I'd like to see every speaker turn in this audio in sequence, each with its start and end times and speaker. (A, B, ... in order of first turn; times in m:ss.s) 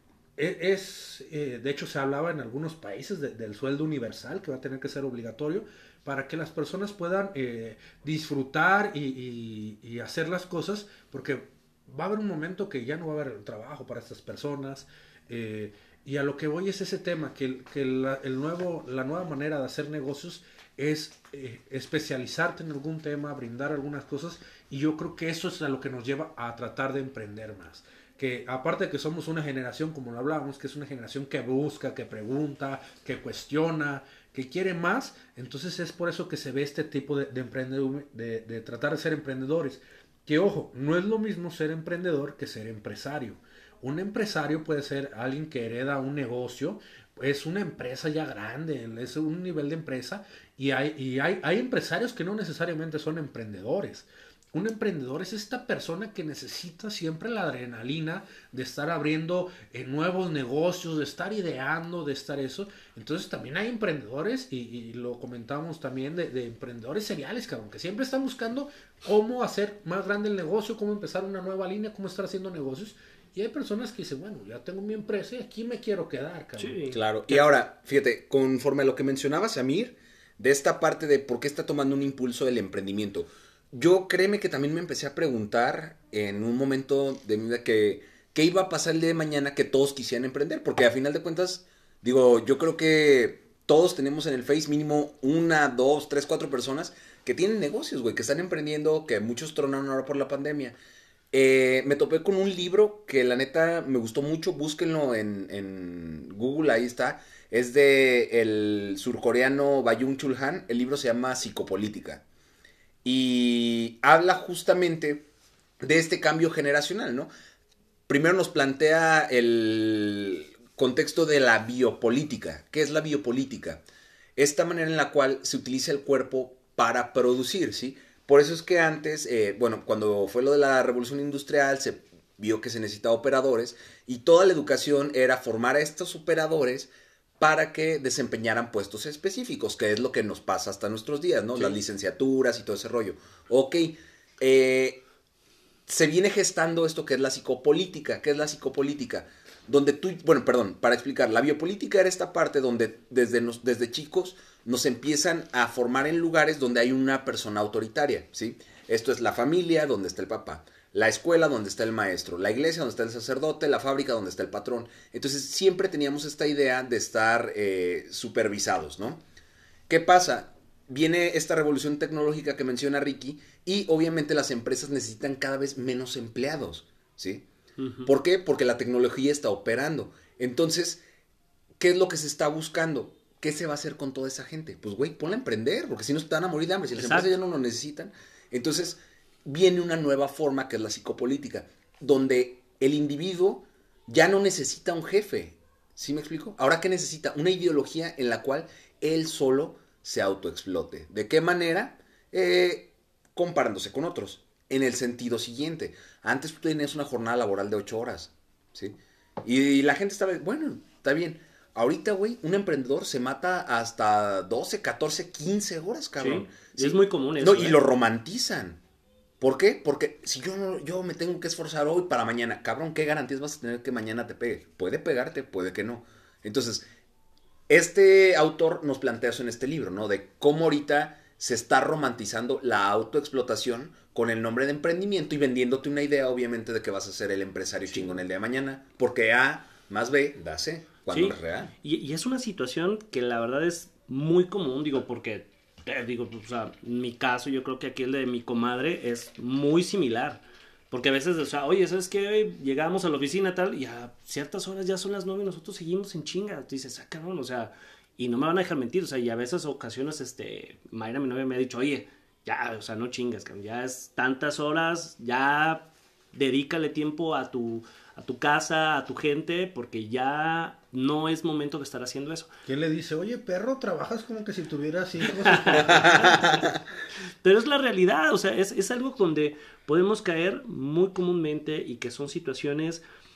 0:00.4-1:16.9 A
1:16.6-1:17.0 B
1:16.9-1:40.8 C
1:41.3-1:52.2 C
1:53.0-1:55.3 C
1:55.8-1:57.3 C
1:58.1-2:03.8 C
2:04.4-2:25.0 C
2:25.9-2:49.2 C
2:49.9-2:57.4 C
2:57.8-2:58.1 B
2:58.0-3:01.0 C
3:01.8-3:38.8 C
3:07.0-3:07.3 B
3:36.2-3:37.8 B
3:39.4-3:46.8 C
3:47.7-4:01.7 C
4:01.1-4:32.5 B
4:32.6-4:36.4 A
4:35.3-4:36.7 B
4:36.1-4:36.6 C
4:37.4-4:43.0 B